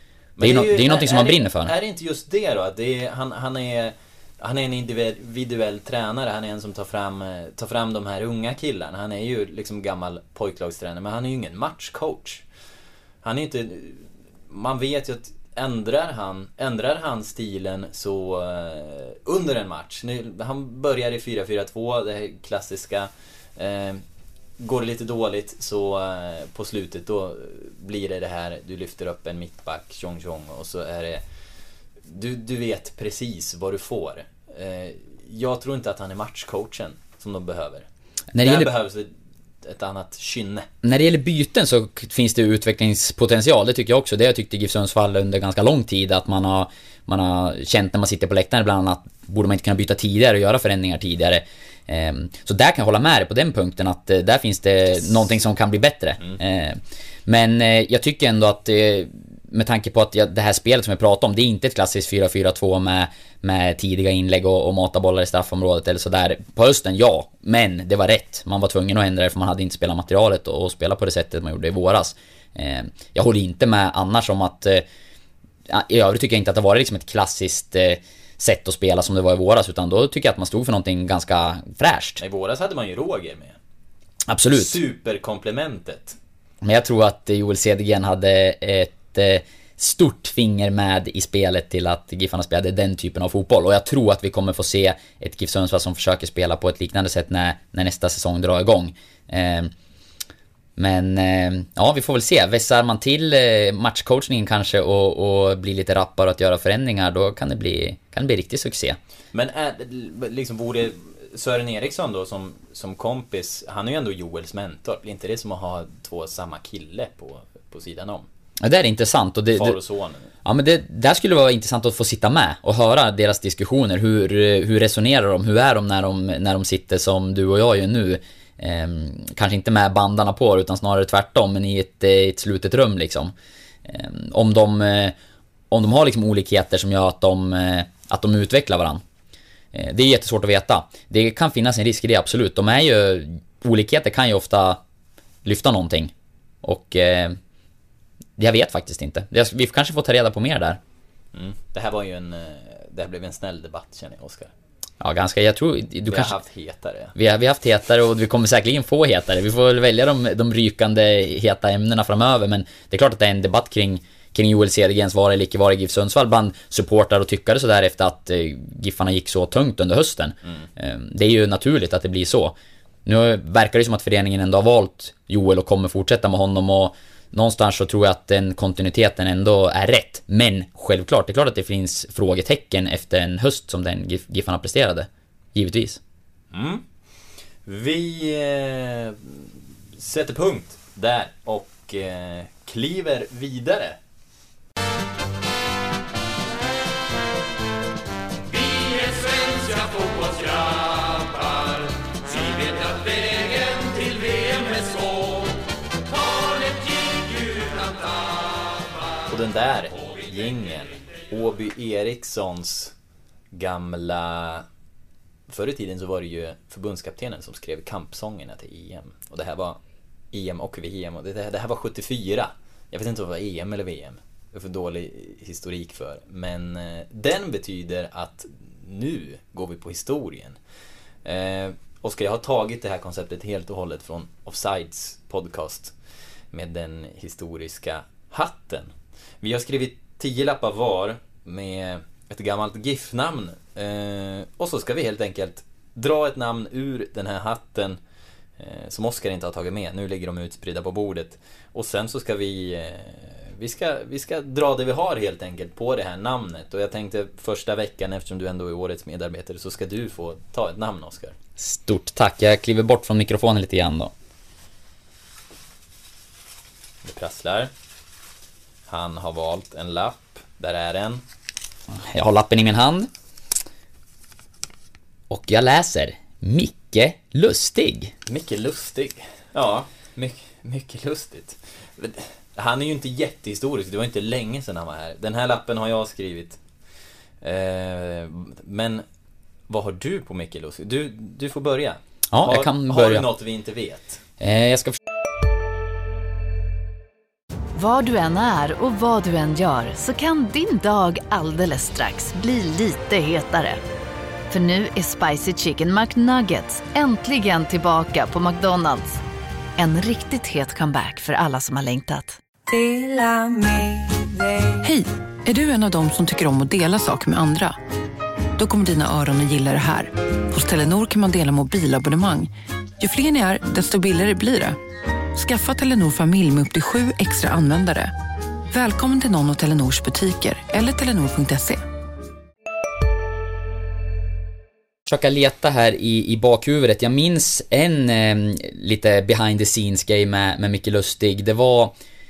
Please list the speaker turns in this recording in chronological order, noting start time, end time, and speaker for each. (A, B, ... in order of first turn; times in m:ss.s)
0:00.4-0:12.4 A
0:00.4-0:01.7 B
0:13.2-0:24.0 A
0:24.6-0:31.2 A
0:32.1-0:37.9 A
0:38.3-0:38.7 B
0:38.4-0:39.1 A
0:39.6-0:40.7 A
0:40.8-1:14.8 B
1:15.7-1:22.2 B
1:22.2-1:23.6 A
1:24.3-1:24.8 B
1:24.5-1:26.2 A
1:26.6-1:39.7 B
1:40.8-1:49.0 B
1:49.3-1:58.3 A
1:58.6-1:59.8 B
1:59.5-2:00.3 A
2:00.4-2:13.3 B
2:13.8-2:15.2 B
2:15.7-2:19.0 B
2:19.7-2:24.8 B
2:25.4-2:27.4 B
2:28.4-2:30.8 B
2:31.3-2:34.5 A
2:35.0-2:36.4 B
2:36.1-2:37.1 A
2:37.2-3:06.0 B
3:06.5-3:06.8 A
3:07.7-3:14.0 A
3:22.4-3:23.1 A
3:29.3-3:32.9 A
3:33.5-3:34.7 A
3:35.5-3:39.8 A
3:40.3-3:50.6 A
3:51.2-3:56.0 A
3:56.5-4:08.0 A
4:08.6-4:21.4 A
4:21.6-4:24.1 B
4:27.0-4:27.7 A
4:28.9-4:31.2 A
4:32.0-4:33.1 B
4:35.3-4:38.1 B
4:38.3-4:46.6 A
4:47.4-4:49.0 A
4:49.7-4:54.2 A
4:52.3-4:53.3 B
4:54.4-4:55.0 B
4:57.8-5:03.8 C
5:04.5-5:09.2 C
5:09.8-5:12.4 C
5:12.7-5:17.8 D
5:18.6-5:24.8 D
5:25.3-5:28.1 D
5:28.7-5:31.8 D
5:35.1-5:42.0 B